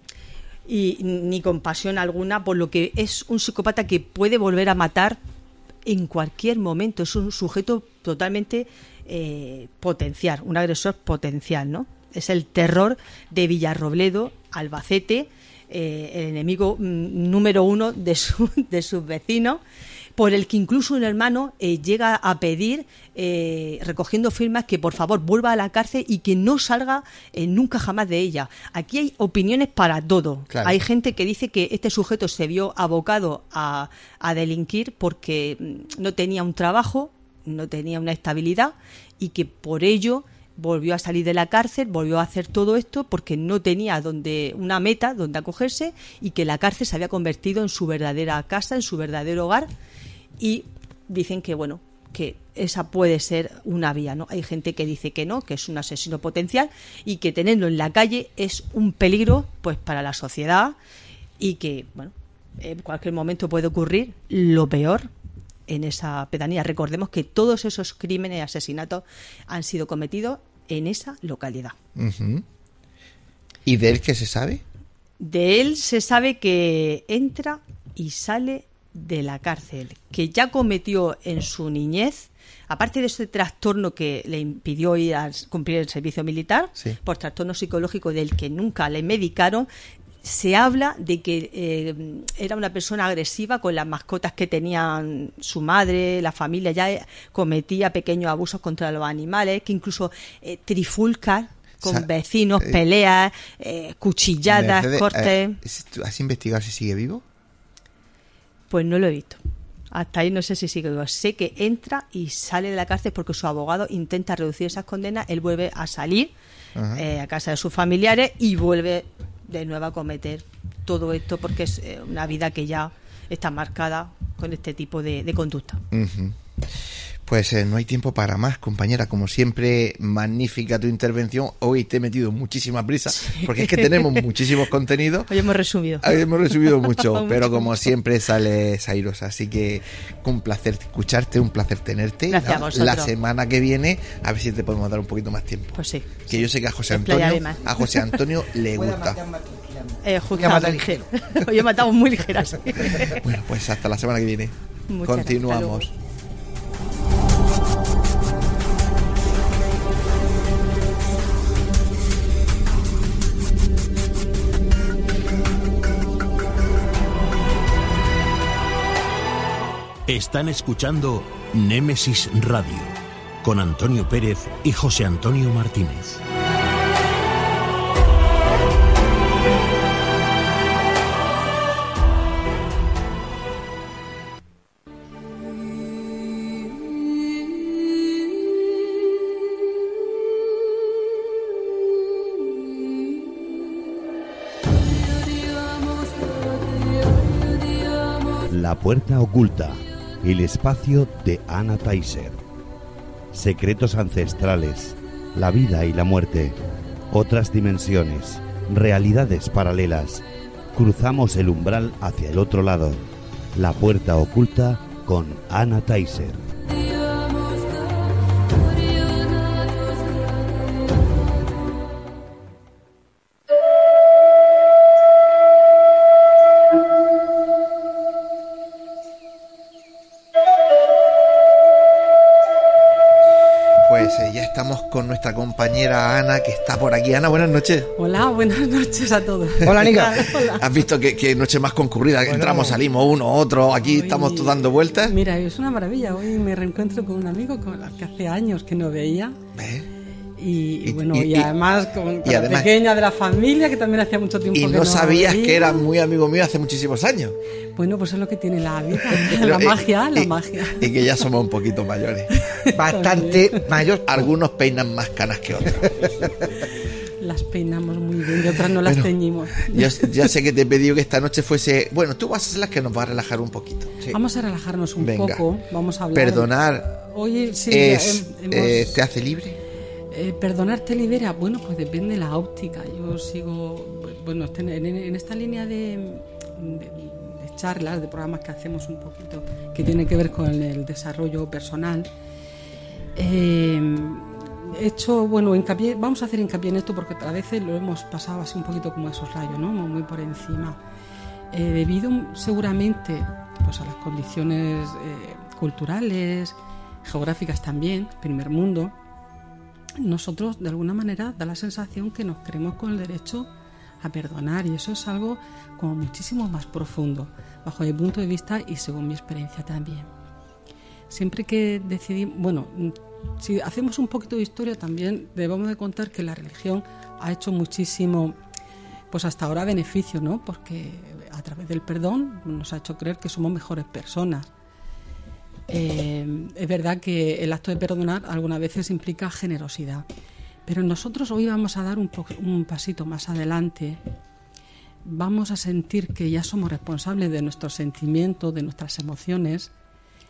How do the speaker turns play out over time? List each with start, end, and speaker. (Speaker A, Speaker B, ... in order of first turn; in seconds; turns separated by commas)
Speaker A: 0.7-5.2, Speaker A: 5.9-19.6, Speaker A: 20.2-49.7, Speaker B: 30.5-30.8, Speaker A: 50.4-60.8, Speaker A: 61.4-65.1, Speaker A: 65.7-71.7, Speaker B: 72.0-72.4, Speaker B: 73.7-74.6, Speaker A: 75.2-89.7, Speaker A: 90.2-105.6, Speaker B: 101.8-102.1, Speaker B: 104.5-107.2, Speaker A: 108.7-109.4, Speaker A: 109.9-116.3, Speaker B: 116.8-117.0, Speaker A: 116.9-125.8, Speaker B: 125.9-135.3, Speaker A: 133.2-134.2, Speaker A: 135.3-137.7, Speaker B: 136.0-149.2, Speaker A: 142.3-143.1, Speaker A: 145.7-147.9, Speaker C: 148.7-151.0, Speaker A: 150.0-153.2, Speaker B: 153.2-155.9, Speaker A: 154.9-155.9, Speaker D: 170.1-176.2, Speaker E: 198.5-202.4, Speaker E: 203.3-206.6, Speaker E: 207.1-213.0, Speaker E: 213.6-216.4, Speaker B: 233.8-237.9, Speaker F: 237.9-240.7, Speaker C: 239.6-240.1, Speaker B: 240.6-245.1, Speaker C: 242.2-242.8, Speaker F: 243.8-249.4, Speaker B: 249.6-249.9, Speaker F: 250.4-255.9, Speaker B: 250.8-251.5, Speaker B: 252.2-252.7, Speaker B: 254.5-257.4, Speaker F: 257.8-260.9, Speaker B: 259.3-262.3, Speaker F: 262.3-263.6, Speaker C: 262.8-264.3, Speaker B: 264.1-266.3, Speaker F: 267.2-270.1, Speaker B: 268.8-269.1, Speaker B: 269.6-273.9, Speaker F: 274.1-279.0, Speaker B: 275.0-275.4, Speaker B: 276.1-276.9, Speaker B: 277.7-279.6, Speaker F: 280.1-292.1, Speaker F: 293.2-300.8, Speaker F: 301.5-308.9, Speaker F: 310.0-313.5, Speaker F: 314.0-320.1, Speaker F: 321.1-328.4, Speaker F: 329.1-334.5, Speaker F: 335.7-340.1, Speaker F: 340.7-344.0, Speaker F: 345.1-349.7